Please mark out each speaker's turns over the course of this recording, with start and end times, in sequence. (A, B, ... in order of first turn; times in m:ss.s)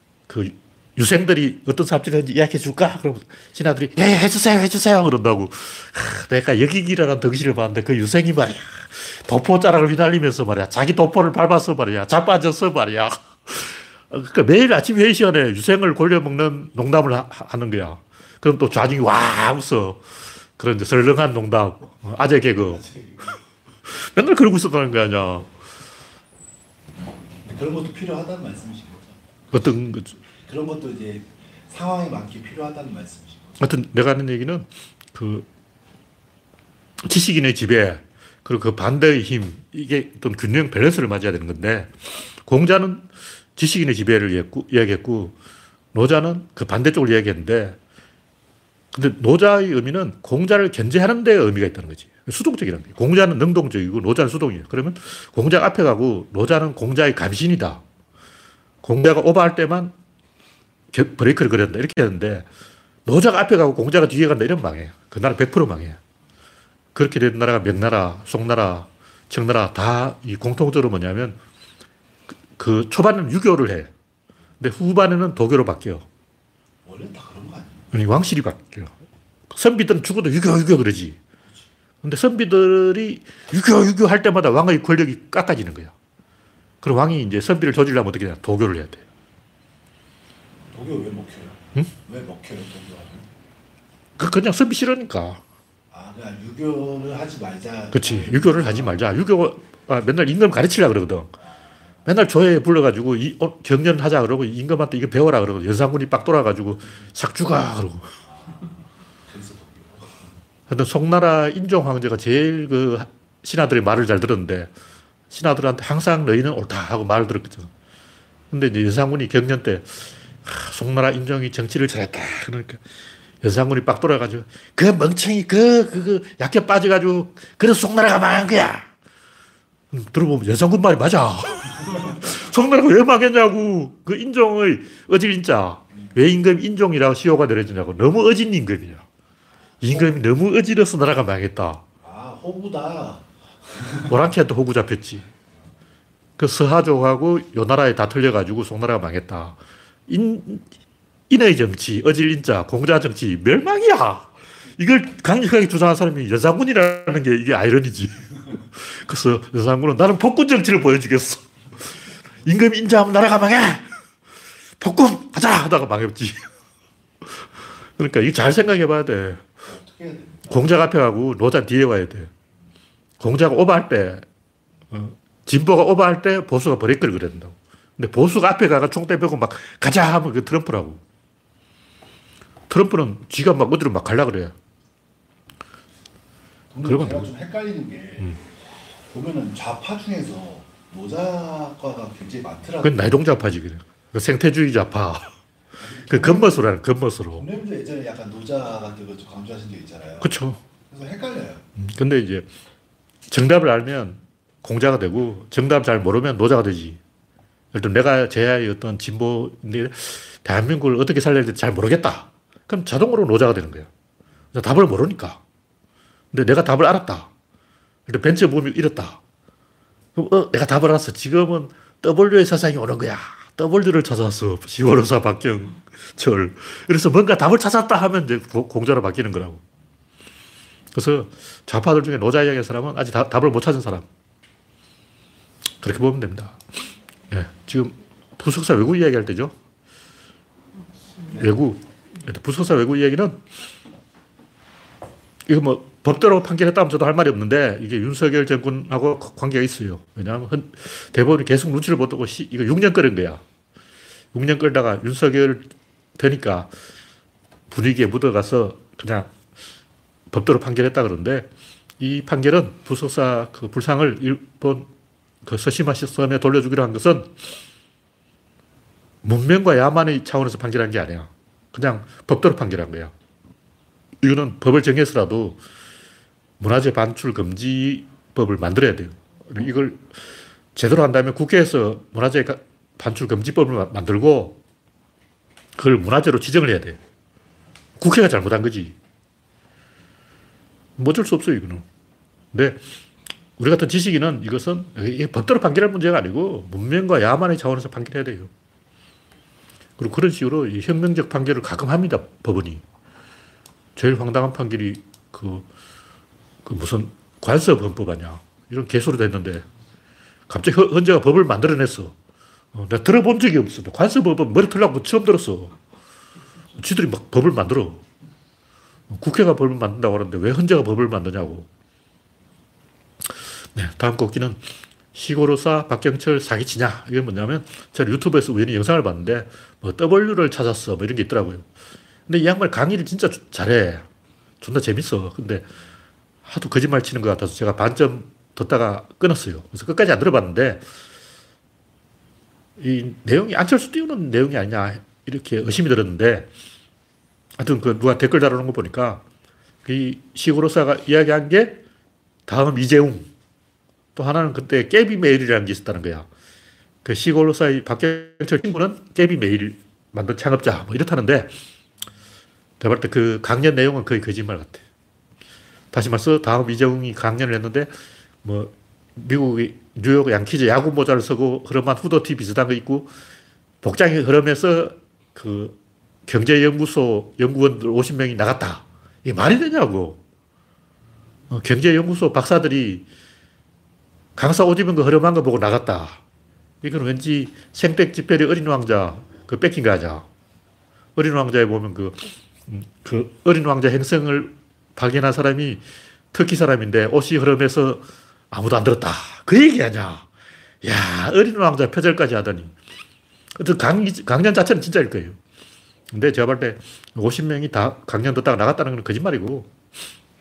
0:00.3-0:20.0 A
0:20.6-0:22.8 A
0:22.6-0:23.4 B
0:23.9-0:25.5 A
0:27.4-0:29.2 B
0:29.5-0:30.2 A
0:30.4-0:33.6 B
0:33.6-0:35.5 A
0:37.0-0:41.9 A
0:42.4-0:45.4 A
0:45.9-0:47.8 A
0:48.9-0:57.8 A
0:58.8-0:59.9 A
1:00.9-1:02.5 A
1:03.1-1:06.0 A
1:07.0-1:11.4 A
1:12.6-1:13.9 A
1:14.6-1:16.1 A
1:16.8-1:17.9 B
1:17.9-1:18.9 A
1:19.5-1:21.2 A
1:22.0-1:25.9 A
1:26.8-1:29.0 A
1:30.7-1:33.3 B
1:34.2-1:35.4 A
1:35.9-1:39.0 B
1:37.9-1:41.4 A
1:42.1-1:48.1 A
1:49.3-1:50.2 B
1:50.7-1:54.7 A
1:55.3-1:57.7 A
1:58.5-2:02.8 A
2:03.4-2:08.9 A
2:09.9-2:19.0 A
2:19.8-2:21.8 A
2:22.0-2:24.1 B
2:24.1-2:25.3 A
2:26.4-2:30.7 A
2:31.3-2:41.4 A
2:42.4-2:43.8 A
2:44.8-2:46.5 A
2:48.0-2:49.4 A
2:49.6-2:50.8 B
2:50.5-2:52.3 A
2:53.2-2:54.2 A
2:54.9-3:01.0 A
3:02.7-3:04.6 A
3:06.7-3:08.4 B
3:06.8-3:07.3 A
3:09.1-3:13.2 B
3:12.8-3:15.3 A
3:15.8-3:16.7 B
3:16.1-3:17.5 A
3:17.4-3:20.3 B
3:20.2-3:20.6 A
3:20.9-3:21.7 B
3:21.8-3:22.5 A
3:23.3-3:27.0 A
3:27.7-3:33.9 A
3:34.5-3:35.4 A
3:36.3-3:37.3 A
3:38.1-3:39.2 A
3:40.2-3:49.6 A
3:50.9-3:54.1 A
3:55.8-3:56.6 A
3:57.3-3:59.5 A
4:01.3-4:03.4 A
4:05.5-4:13.4 A
4:14.3-4:16.7 A
4:17.7-4:19.3 A
4:20.3-4:24.9 A
4:25.4-4:27.5 A
4:29.2-4:33.1 A
4:34.2-4:35.6 A
4:36.6-4:40.1 A
4:40.8-4:44.6 A
4:45.8-4:47.0 A
4:48.0-4:49.0 A
4:51.0-4:51.8 A
4:52.5-4:52.8 A
4:53.6-4:58.5 A
5:00.0-5:02.8 A
5:04.0-5:05.7 A
5:06.6-5:09.7 A
5:10.5-5:12.1 A
5:12.7-5:15.8 A
5:16.8-5:18.0 A
5:19.1-5:21.7 A
5:23.8-5:24.6 A
5:25.1-5:31.6 A
5:32.3-5:34.1 A
5:34.6-5:35.7 A
5:36.4-5:40.8 A
5:42.8-5:46.5 A
5:47.6-5:49.2 A
5:49.8-5:51.8 A
5:52.5-5:53.3 A
5:54.2-5:56.3 A
5:57.0-6:01.5 A
6:02.8-6:04.8 A
6:05.9-6:07.9 A
6:08.4-6:13.1 A
6:13.8-6:15.8 A
6:16.3-6:20.2 A
6:21.5-6:23.1 A
6:24.4-6:26.2 A
6:26.8-6:30.3 A
6:31.2-6:40.3 A
6:40.8-6:42.7 A
6:43.6-6:45.4 A
6:46.1-6:49.7 A